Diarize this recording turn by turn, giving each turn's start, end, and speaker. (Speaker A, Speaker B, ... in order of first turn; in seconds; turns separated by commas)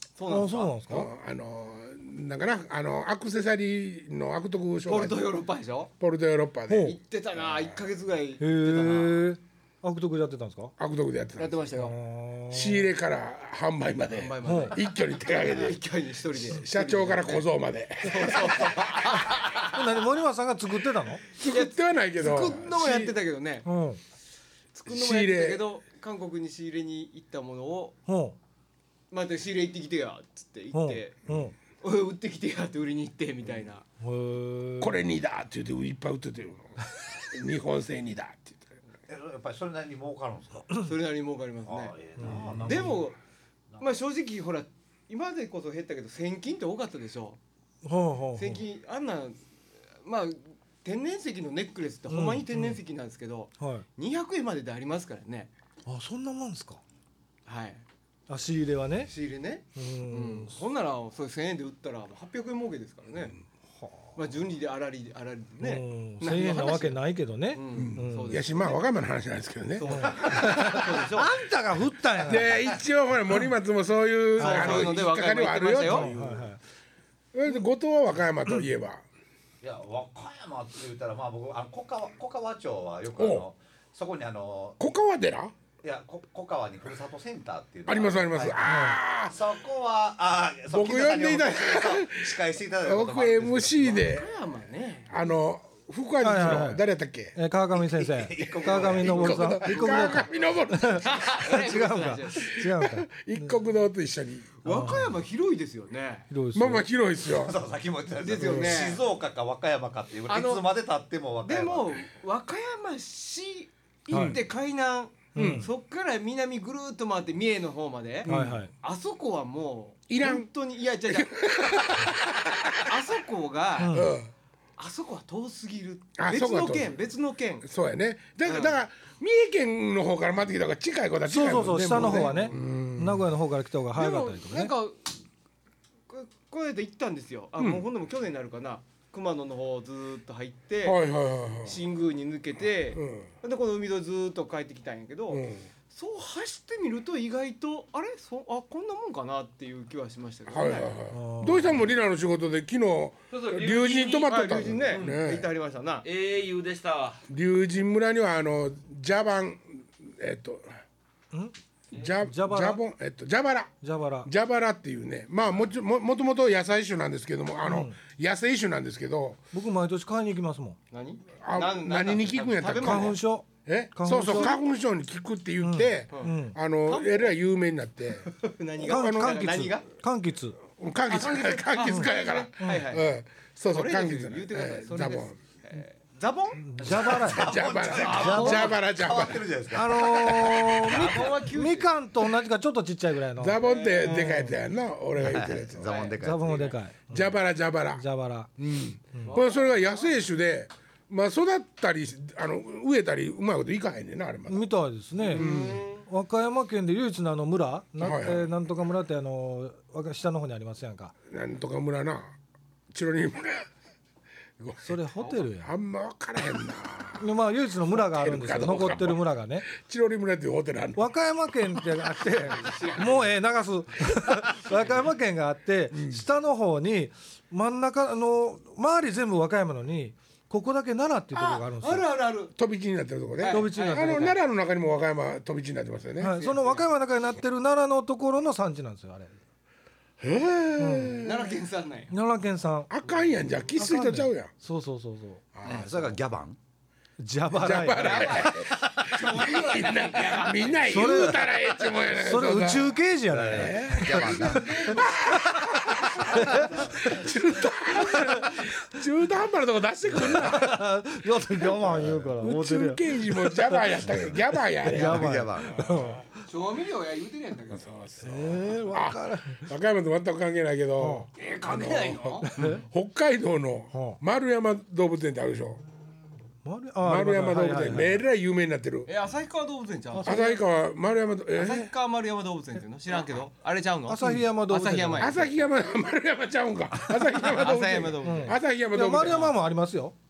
Speaker A: 0.2-0.8, Speaker B: 0.3-1.1, Speaker C: 0.9-5.3, Speaker A: 4.8-5.9, Speaker C: 6.0-6.9, Speaker B: 6.7-7.0, Speaker A: 6.8-9.3, Speaker B: 8.4-10.7, Speaker C: 10.8-11.6, Speaker A: 11.4-12.0, Speaker B: 11.8-12.9, Speaker C: 12.5-15.8, Speaker A: 14.1-17.5, Speaker B: 14.4-14.8, Speaker C: 16.5-19.0, Speaker A: 18.0-19.8, Speaker B: 19.6-21.2, Speaker C: 21.4-23.1, Speaker A: 21.4-23.7, Speaker B: 23.6-24.0, Speaker A: 24.7-28.0, Speaker C: 24.9-25.6, Speaker B: 28.1-28.4, Speaker A: 29.1-31.2, Speaker B: 30.7-31.6, Speaker A: 31.8-33.8, Speaker B: 34.0-35.0, Speaker C: 34.8-38.7, Speaker D: 39.1-40.7, Speaker A: 40.8-43.2, Speaker D: 41.6-43.1, Speaker B: 42.2-42.9, Speaker A: 43.8-47.4, Speaker B: 47.8-48.6, Speaker A: 48.4-49.4, Speaker A: 50.0-55.5, Speaker B: 52.1-52.8, Speaker B: 53.6-53.9, Speaker B: 55.9-56.8, Speaker A: 57.5-57.8, Speaker B: 58.3-59.1, Speaker A: 59.1-63.4, Speaker B: 59.8-60.6, Speaker B: 63.8-64.1, Speaker A: 64.2-67.0, Speaker B: 65.6-68.4, Speaker A: 67.5-68.8, Speaker C: 67.7-70.8, Speaker A: 69.8-71.3, Speaker B: 69.9-72.6, Speaker C: 72.2-76.5, Speaker A: 74.4-76.1, Speaker B: 74.4-74.9, Speaker B: 75.8-76.6, Speaker C: 77.3-79.0, Speaker D: 79.6-84.8, Speaker C: 83.2-83.5, Speaker C: 84.8-85.5, Speaker D: 85.8-94.2, Speaker C: 87.9-89.3, Speaker B: 88.7-89.0, Speaker C: 90.7-94.3, Speaker A: 94.0-95.1, Speaker C: 95.1-97.4, Speaker B: 96.2-96.8, Speaker B: 97.3-103.5, Speaker D: 97.8-100.3, Speaker C: 98.7-101.4, Speaker A: 101.0-102.5, Speaker C: 102.5-104.5, Speaker A: 104.6-106.3, Speaker B: 104.7-105.2, Speaker B: 106.3-106.9, Speaker C: 106.5-107.6, Speaker D: 107.3-112.0, Speaker A: 108.2-109.1, Speaker C: 108.4-108.8, Speaker A: 110.3-110.7, Speaker A: 111.4-122.1, Speaker B: 114.1-114.4, Speaker C: 114.1-114.4, Speaker B: 115.3-115.7, Speaker C: 115.4-115.7, Speaker B: 118.2-118.7, Speaker C: 118.3-118.6, Speaker C: 120.1-120.5, Speaker C: 121.1-122.9, Speaker A: 122.8-124.1, Speaker B: 123.8-124.2, Speaker C: 123.9-124.3, Speaker A: 124.8-127.7, Speaker C: 126.2-127.0, Speaker C: 127.7-133.2, Speaker A: 128.4-128.8, Speaker B: 131.3-134.7, Speaker A: 131.9-132.6, Speaker A: 133.9-135.1, Speaker A: 136.1-141.0, Speaker C: 137.6-137.8, Speaker C: 140.8-141.8, Speaker A: 141.6-150.9, Speaker C: 142.9-143.3, Speaker C: 145.3-145.6, Speaker C: 150.5-155.5, Speaker B: 151.1-151.8, Speaker E: 153.3-154.3, Speaker A: 154.0-156.1, Speaker E: 156.0-157.2, Speaker C: 157.3-160.7, Speaker C: 161.9-169.4, Speaker B: 162.2-162.8, Speaker B: 163.8-164.3, Speaker B: 167.7-168.0, Speaker B: 169.5-170.8, Speaker A: 170.9-173.2, Speaker C: 171.4-179.7, Speaker B: 172.8-174.6, Speaker B: 175.6-176.6, Speaker A: 176.1-177.3, Speaker A: 178.2-179.9, Speaker B: 178.8-180.6, Speaker C: 180.8-185.4, Speaker A: 181.1-183.1, Speaker A: 183.7-186.7, Speaker B: 186.6-187.5, Speaker D: 186.8-191.1, Speaker C: 187.3-189.4, Speaker A: 187.8-188.8, Speaker B: 189.7-194.6, Speaker A: 190.8-191.9, Speaker C: 193.4-196.1, Speaker A: 193.6-194.5, Speaker D: 195.2-196.8, Speaker A: 195.8-196.6, Speaker B: 196.2-197.4, Speaker C: 197.1-198.1, Speaker B: 197.9-198.5, Speaker C: 198.6-204.7, Speaker A: 199.3-200.1, Speaker B: 204.5-211.2, Speaker A: 205.2-206.1, Speaker C: 205.3-205.9, Speaker C: 208.0-208.5, Speaker C: 211.3-212.4, Speaker C: 212.9-213.7, Speaker C: 214.6-214.9, Speaker B: 214.8-215.7, Speaker C: 215.6-217.3, Speaker B: 217.2-219.7, Speaker C: 218.0-221.1, Speaker B: 221.0-232.1, Speaker A: 222.5-223.3, Speaker C: 225.9-226.2, Speaker A: 231.3-232.5, Speaker C: 232.6-236.4, Speaker A: 233.4-234.4, Speaker B: 233.5-234.3, Speaker B: 236.2-239.4, Speaker A: 236.4-236.8, Speaker C: 240.2-241.5, Speaker B: 240.8-241.2, Speaker A: 241.2-242.1, Speaker B: 242.1-242.9, Speaker C: 242.9-244.5, Speaker B: 243.8-245.4, Speaker C: 245.6-246.2, Speaker D: 245.6-246.6, Speaker B: 247.2-248.6, Speaker C: 247.5-253.0, Speaker A: 247.8-251.2, Speaker B: 250.8-251.5, Speaker B: 252.1-254.6, Speaker D: 253.3-254.9, Speaker C: 253.5-260.8, Speaker A: 254.2-255.1, Speaker B: 256.2-257.1, Speaker B: 258.0-258.7, Speaker B: 260.1-264.3, Speaker C: 261.6-265.3, Speaker B: 264.8-266.4, Speaker D: 264.9-265.9, Speaker A: 266.5-267.9, Speaker C: 267.8-275.8, Speaker B: 268.2-269.7, Speaker B: 271.0-271.3, Speaker A: 271.6-272.5, Speaker B: 272.4-272.8, Speaker B: 273.9-274.2, Speaker B: 276.6-278.2, Speaker C: 277.0-279.1, Speaker A: 279.1-280.6, Speaker B: 280.1-280.6, Speaker C: 280.2-281.9, Speaker A: 281.5-285.6, Speaker B: 284.1-285.4, Speaker C: 285.2-289.5, Speaker A: 287.2-288.6, Speaker B: 288.2-290.1